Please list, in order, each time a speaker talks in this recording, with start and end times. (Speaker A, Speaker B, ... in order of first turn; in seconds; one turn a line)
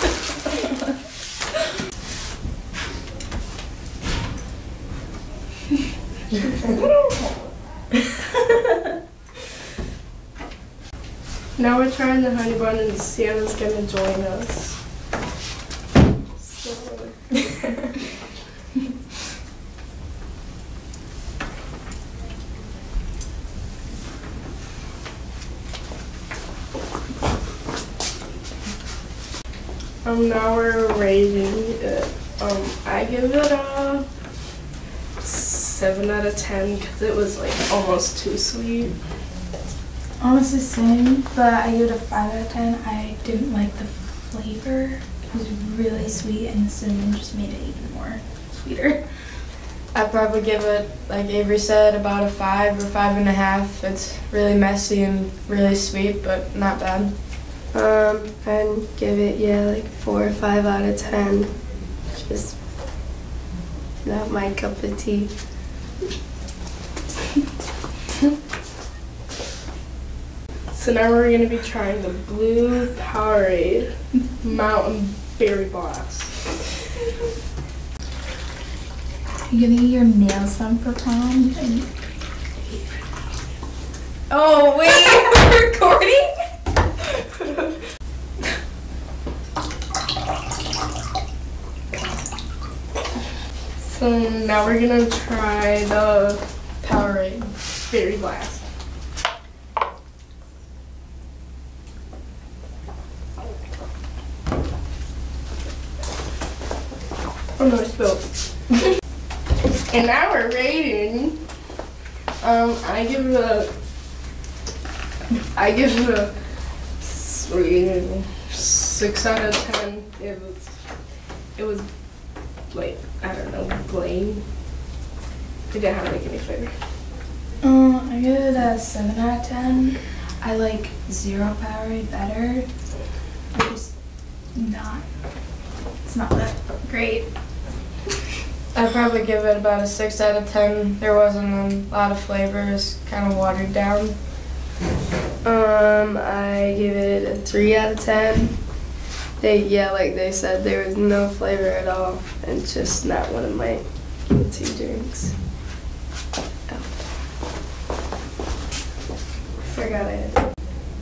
Speaker A: 11.6-14.8
Speaker A: 16.3-17.7
Speaker A: 30.0-34.0
Speaker A: 35.2-38.9
Speaker B: 40.2-49.0
Speaker C: 49.9-57.1
Speaker D: 57.7-61.5
Speaker D: 62.1-62.5
Speaker D: 64.0-65.3
Speaker A: 70.7-76.3
Speaker B: 79.5-81.9
Speaker B: 84.3-86.3
Speaker A: 93.8-98.6
Speaker C: 96.8-97.1
Speaker A: 107.6-108.3
Speaker A: 109.9-111.4
Speaker A: 112.4-113.7
Speaker A: 115.5-116.3
Speaker A: 117.0-120.8
Speaker A: 121.5-121.9
Speaker A: 122.7-124.4
Speaker A: 125.7-126.7
Speaker B: 127.6-132.7
Speaker B: 133.5-133.9
Speaker B: 134.5-135.0
Speaker B: 136.0-137.3
Speaker C: 138.7-144.1
Speaker D: 145.4-148.5
Speaker D: 149.4-155.3
Speaker D: 159.7-160.4